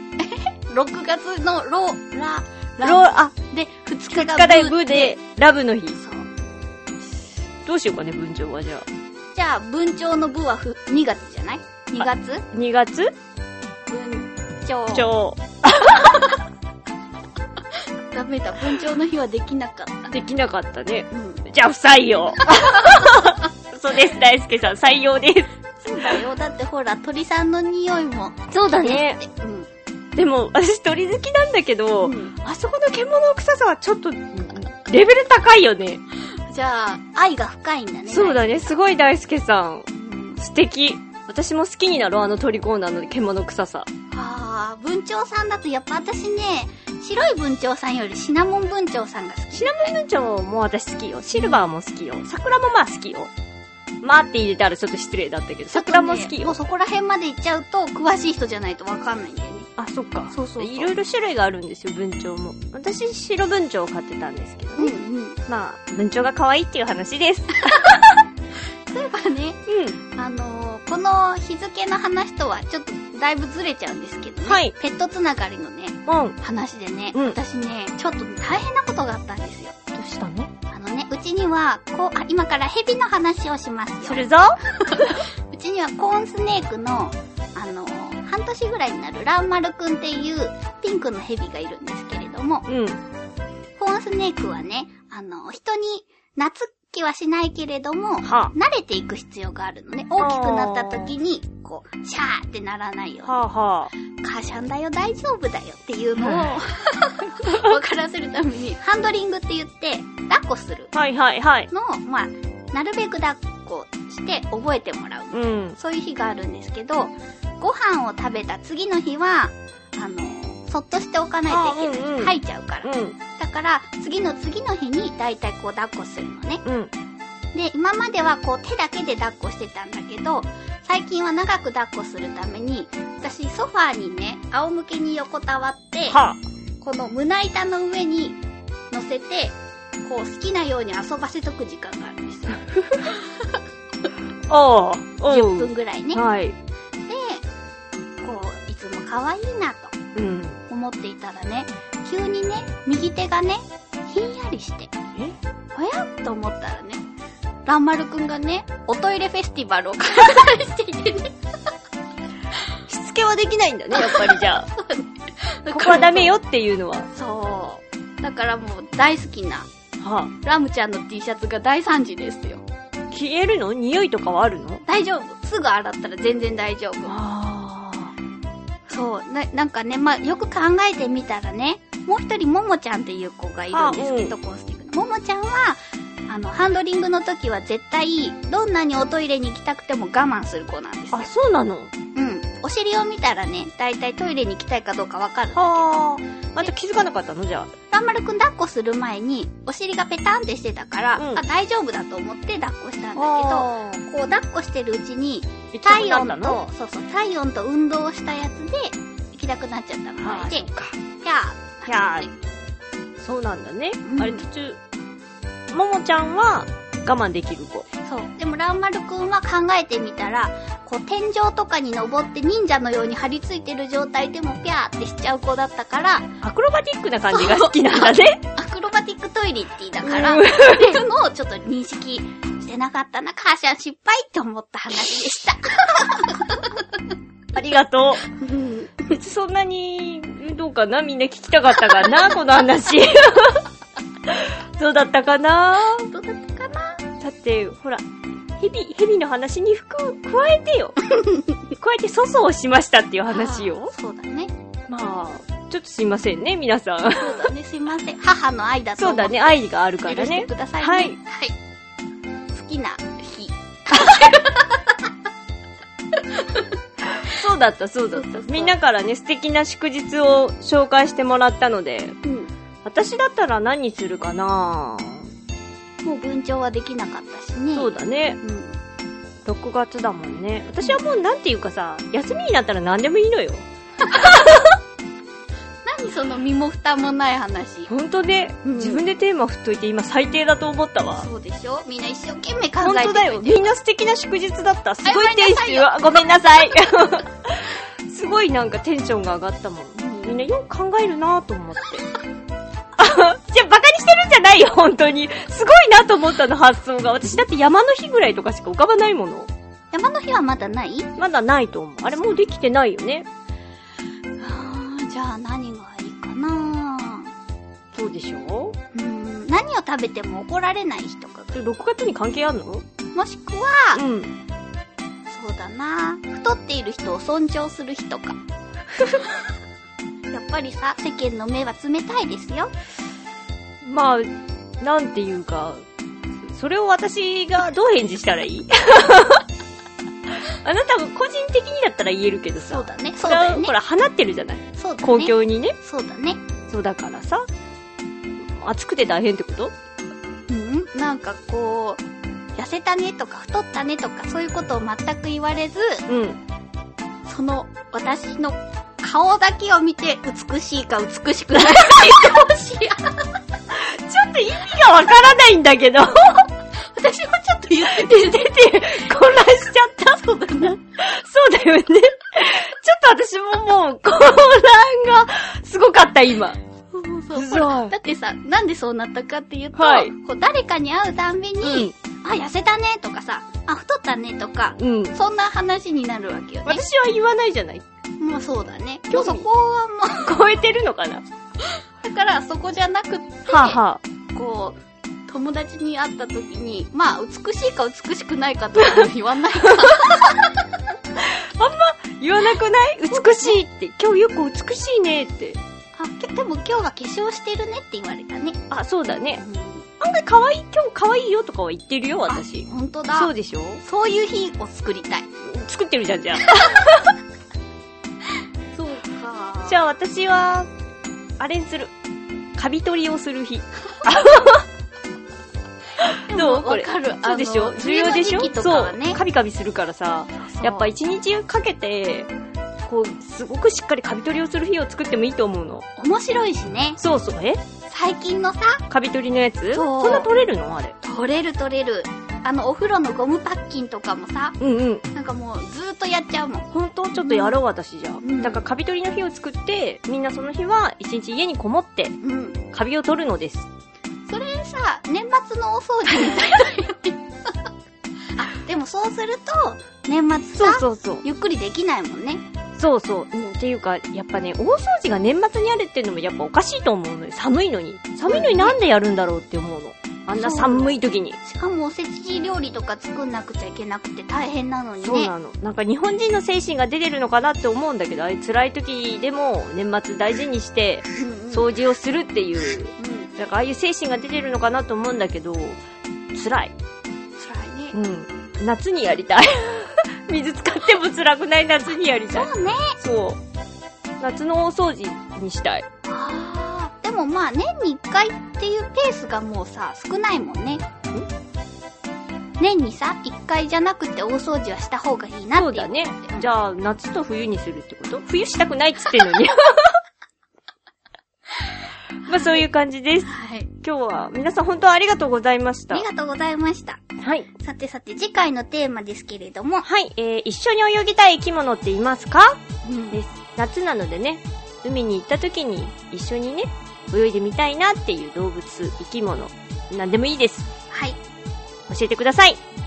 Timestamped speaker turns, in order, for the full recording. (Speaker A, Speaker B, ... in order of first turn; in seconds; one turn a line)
Speaker A: 0.2-5.2
Speaker B: 2.8-3.3
Speaker B: 4.1-6.0
Speaker A: 6.0-6.3
Speaker B: 7.7-8.8
Speaker A: 9.3-12.4
Speaker B: 12.0-13.1
Speaker A: 13.9-15.1
Speaker B: 14.9-16.2
Speaker A: 18.1-20.1
Speaker B: 20.1-25.5
Speaker A: 21.1-21.4
Speaker A: 22.4-23.2
Speaker A: 25.8-29.7
Speaker B: 28.5-29.2
Speaker B: 30.1-36.0
Speaker A: 32.0-32.3
Speaker A: 36.3-38.8
Speaker B: 38.1-43.9
Speaker A: 39.9-40.4
Speaker A: 44.1-50.0
Speaker B: 49.5-53.3
Speaker A: 51.3-51.7
Speaker B: 54.0-56.6
Speaker A: 55.7-59.7
Speaker B: 59.8-64.9
Speaker A: 60.3-60.9
Speaker A: 64.8-65.4
Speaker B: 65.5-68.1
Speaker A: 68.9-69.6
Speaker B: 69.7-70.0
Speaker A: 70.1-79.8
Speaker B: 74.5-74.7
Speaker B: 76.1-76.4
Speaker B: 79.9-80.5
Speaker A: 80.7-92.7
Speaker B: 84.0-84.6
Speaker B: 92.7-93.0
Speaker A: 93.8-103.4
Speaker B: 98.2-98.5
Speaker B: 100.2-101.1
Speaker B: 103.2-103.9
Speaker A: 104.2-110.9
Speaker B: 106.2-106.5
Speaker B: 107.4-107.7
Speaker B: 110.9-111.7
Speaker A: 111.7-126.6
Speaker B: 115.3-115.8
Speaker B: 121.5-123.2
Speaker B: 126.6-126.9
Speaker A: 127.5-136.2
Speaker B: 136.1-136.4
Speaker A: 136.8-143.5
Speaker B: 142.8-143.1
Speaker B: 144.5-146.6
Speaker A: 145.3-146.2
Speaker A: 147.1-147.4
Speaker A: 148.2-149.9
Speaker B: 150.1-150.6
Speaker A: 150.7-154.9
Speaker A: 155.7-157.0
Speaker A: 157.7-161.3
Speaker B: 162.9-164.7
Speaker A: 163.9-166.4
Speaker B: 165.7-167.1
Speaker A: 167.1-169.7
Speaker B: 170.0-170.3
Speaker A: 170.4-172.6
Speaker B: 173.1-174.8
Speaker A: 174.8-177.2
Speaker B: 177.1-178.1
Speaker A: 178.9-191.3
Speaker B: 183.7-184.3
Speaker B: 191.1-191.9
Speaker A: 192.1-195.9
Speaker B: 195.5-197.7
Speaker A: 197.9-210.7
Speaker B: 201.2-201.4
Speaker B: 203.2-204.0
Speaker B: 205.7-206.6
Speaker B: 210.2-211.0
Speaker A: 211.2-212.3
Speaker B: 211.9-212.3
Speaker B: 213.2-214.8
Speaker A: 214.0-214.4
Speaker B: 215.7-217.8
Speaker A: 218.0-226.3
Speaker B: 226.4-228.4
Speaker A: 227.3-236.8
Speaker B: 230.0-231.0
Speaker B: 237.5-238.3
Speaker A: 238.3-239.1
Speaker B: 239.1-243.7
Speaker B: 244.3-246.1
Speaker A: 246.1-247.0
Speaker B: 247.2-248.0
Speaker B: 248.6-251.0
Speaker B: 251.8-253.9
Speaker A: 253.3-254.5
Speaker B: 254.9-257.5
Speaker A: 257.2-259.5
Speaker B: 259.0-261.2
Speaker A: 260.0-261.5
Speaker A: 262.5-264.9
Speaker B: 264.0-264.3
Speaker A: 266.4-266.6
Speaker B: 267.1-272.2
Speaker A: 268.1-268.7
Speaker A: 272.2-272.5
Speaker B: 272.8-275.3
Speaker A: 276.0-278.8
Speaker B: 277.7-278.4
Speaker B: 279.4-284.7
Speaker A: 284.0-284.6
Speaker A: 285.9-287.9
Speaker B: 287.9-291.3
Speaker A: 288.6-289.0
Speaker A: 291.1-293.7
Speaker B: 292.8-302.0
Speaker A: 295.0-295.9
Speaker A: 300.0-300.5
Speaker B: 303.0-309.5
Speaker A: 309.9-311.1
Speaker B: 311.2-313.3
Speaker A: 314.4-317.3
Speaker B: 317.9-318.8
Speaker A: 318.9-321.7
Speaker B: 321.5-322.8
Speaker A: 323.1-324.0
Speaker B: 323.9-324.3
Speaker A: 325.3-328.4
Speaker A: 330.3-332.7
Speaker B: 333.8-335.8
Speaker B: 336.4-339.4
Speaker B: 340.4-345.8
Speaker A: 342.6-343.7
Speaker A: 344.8-346.4
Speaker B: 346.7-347.4
Speaker B: 348.4-349.7
Speaker A: 350.5-352.0
Speaker A: 352.6-356.0
Speaker B: 356.1-356.4
Speaker A: 357.2-363.3
Speaker B: 363.7-366.5
Speaker A: 366.9-370.8
Speaker B: 367.9-370.1
Speaker B: 370.9-376.6
Speaker A: 376.9-386.9
Speaker B: 377.3-377.9
Speaker B: 379.7-380.1
Speaker B: 381.6-381.9
Speaker B: 384.8-385.1
Speaker B: 386.6-387.8
Speaker A: 388.2-390.4
Speaker B: 389.1-389.4
Speaker B: 390.2-391.2
Speaker A: 391.6-393.8
Speaker B: 393.5-394.0
Speaker A: 394.3-400.6
Speaker B: 401.2-405.6
Speaker A: 403.1-403.6
Speaker A: 405.9-408.6
Speaker B: 408.7-409.4
Speaker A: 409.4-409.9
Speaker B: 410.0-413.8
Speaker A: 412.3-413.3
Speaker A: 413.8-415.3
Speaker B: 415.4-416.9
Speaker A: 416.4-417.1
Speaker A: 418.7-419.8
Speaker B: 419.6-420.7
Speaker B: 421.4-421.9
Speaker B: 422.6-424.6
Speaker B: 426.0-432.3
Speaker A: 426.3-429.2
Speaker A: 430.4-430.9
Speaker B: 432.9-435.8
Speaker A: 435.9-437.0
Speaker B: 437.0-437.6
Speaker A: 437.9-438.8
Speaker B: 438.9-440.9
Speaker A: 439.7-440.3
Speaker A: 441.0-444.6
Speaker B: 444.6-445.0
Speaker A: 445.1-447.6
Speaker B: 446.7-452.1
Speaker A: 448.2-448.6
Speaker A: 452.2-452.6
Speaker B: 452.7-453.7
Speaker A: 454.3-457.2
Speaker A: 458.4-462.4
Speaker B: 460.5-461.2
Speaker B: 462.8-471.4
Speaker A: 468.2-468.8
Speaker A: 470.3-475.3
Speaker B: 475.0-485.8
Speaker A: 481.1-481.7
Speaker A: 483.0-483.3
Speaker B: 486.3-486.7
Speaker A: 487.4-488.0
Speaker B: 487.9-493.4
Speaker A: 492.3-493.0
Speaker B: 494.2-495.8
Speaker A: 496.1-500.8
Speaker A: 502.6-506.5
Speaker B: 505.5-510.0
Speaker B: 512.2-513.3
Speaker A: 512.3-512.6
Speaker A: 513.2-513.7
Speaker B: 513.8-516.0
Speaker A: 515.9-517.0
Speaker B: 517.2-517.5
Speaker A: 517.5-519.9
Speaker B: 519.8-522.6
Speaker A: 522.8-523.2
Speaker B: 523.1-530.7
Speaker A: 530.9-531.2
Speaker B: 531.9-532.6